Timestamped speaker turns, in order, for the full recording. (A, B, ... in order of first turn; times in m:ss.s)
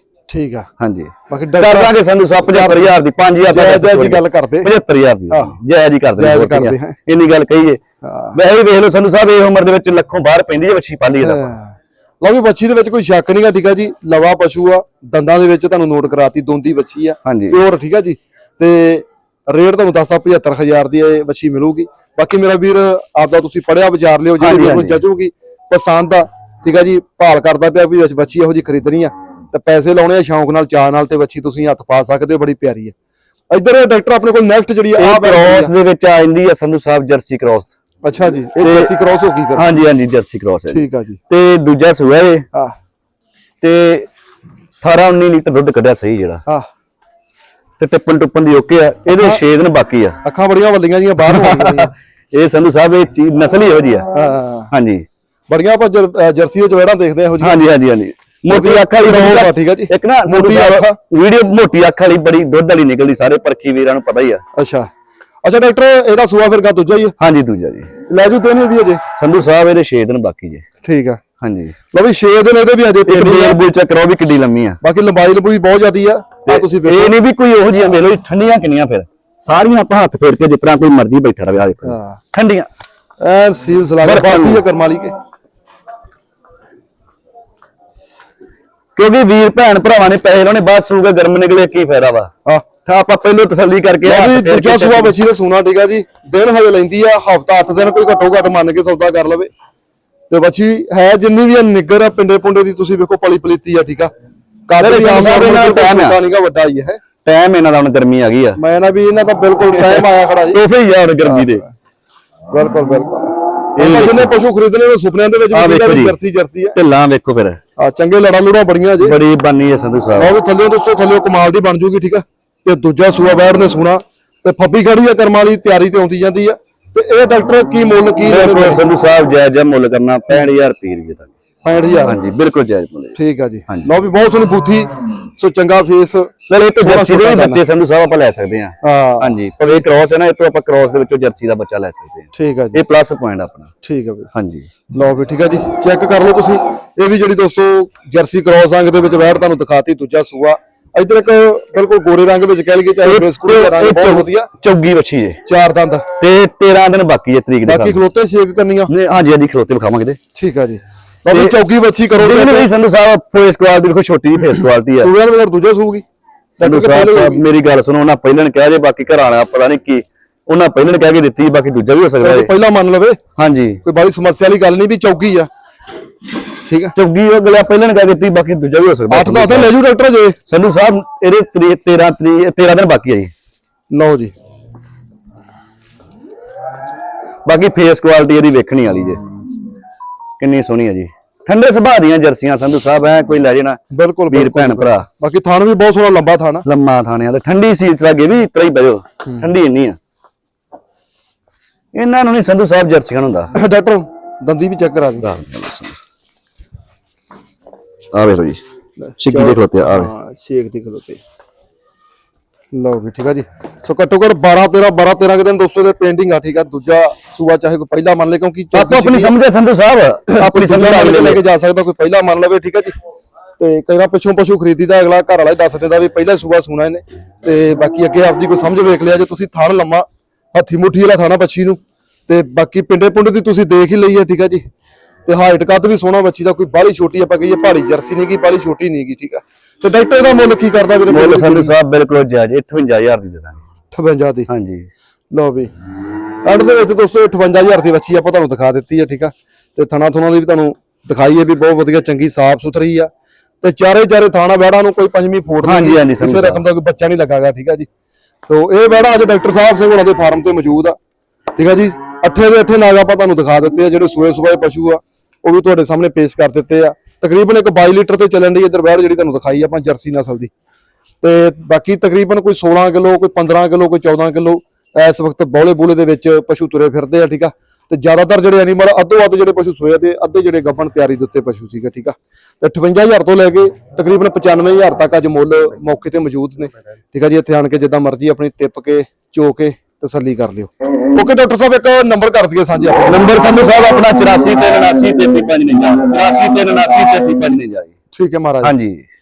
0:00.3-0:00.7 A
0:00.8-0:07.8 B
0:01.3-0:04.7 A
0:05.3-0:05.6 A
0:06.2-0:07.0 A
0:08.0-0:08.4 A
0:08.3-0:11.5 B
0:11.2-0:32.9 A
0:17.2-0:17.6 B
0:24.4-0:25.0 B
0:33.5-0:35.7 A
0:35.0-0:37.7 B
0:38.0-0:39.6 A
0:38.6-0:38.9 B
0:39.5-0:42.4 B
0:40.7-0:41.2 A
0:43.6-0:44.1 B
0:44.8-0:46.4 B
0:47.8-0:50.2 B
0:49.1-0:49.4 A
0:50.2-0:51.9 A
0:51.2-0:54.1 B
0:54.1-0:54.7 A
0:54.7-0:55.0 B
0:55.5-0:57.6 A
0:57.4-1:04.4 B
0:58.5-1:01.0 A
1:04.6-1:04.9 A
1:05.4-1:07.1 A
1:07.2-1:07.9 B
1:08.0-1:09.0 A
1:09.2-1:10.6 B
1:10.8-1:11.2 A
1:11.4-1:11.7 B
1:11.9-1:13.6 A
1:13.0-1:14.8 B
1:14.8-1:17.2 A
1:16.4-1:22.7 B
1:21.8-1:22.2 A
1:23.2-1:25.1 A
1:24.0-1:24.6 B
1:29.0-1:32.3 B
1:32.8-1:35.2 B
1:34.0-1:39.5 A
1:40.3-1:44.1 A
1:44.7-1:47.0 A
1:44.8-1:46.2 B
1:47.2-1:48.6 B
1:48.6-1:50.6 A
1:49.6-1:51.6 B
1:51.2-1:51.6 A
1:52.5-1:56.8 A
1:53.8-1:54.3 B
1:55.5-1:56.2 B
1:56.7-1:57.6 B
1:57.8-1:59.2 A
1:59.0-2:00.3 B
2:00.1-2:08.8 A
2:08.2-2:11.3 B
2:11.6-2:12.2 A
2:12.0-2:13.2 B
2:13.2-2:17.6 A
2:16.5-2:23.7 B
2:18.8-2:19.8 A
2:22.3-2:22.8 A
2:23.8-2:24.3 A
2:24.3-2:24.7 B
2:24.9-2:34.5 A
2:33.0-2:35.4 B
2:35.4-2:36.0 A
2:36.2-2:38.0 B
2:37.6-2:38.9 A
2:38.9-2:40.2 B
2:40.3-2:42.7 A
2:41.3-2:41.6 B
2:42.1-2:45.1 B
2:45.0-2:46.0 A
2:46.6-2:52.5 B
2:46.6-2:47.4 A
2:52.2-2:53.2 A
2:53.4-2:53.8 B
2:53.8-2:55.5 A
2:56.7-2:56.9 A
2:57.0-2:59.7 B
2:59.1-3:00.4 A
3:00.4-3:03.3 B
3:03.9-3:04.3 A
3:07.4-3:09.2 B
3:10.4-3:15.0 B
3:13.9-3:16.6 A
3:16.6-3:20.0 B
3:21.9-3:23.5 B
3:23.5-3:25.3 A
3:25.2-3:26.0 B
3:28.1-3:28.6 B
3:29.0-3:31.2 A
3:29.2-3:30.1 B
3:32.7-3:39.3 A
3:38.7-3:41.4 B
3:40.3-3:42.9 A
3:43.6-3:54.6 A
3:55.2-4:01.7 A
4:01.1-4:03.6 B
4:03.9-4:04.5 A
4:04.5-4:04.9 B
4:05.3-4:05.7 A
4:06.4-4:13.1 A
4:13.6-4:17.9 A
4:15.6-4:16.6 B
4:18.5-4:21.0 A
4:21.6-4:30.5 A
4:31.2-4:53.3 A
4:53.0-4:57.9 B
4:58.1-4:58.7 A
4:58.6-4:59.0 B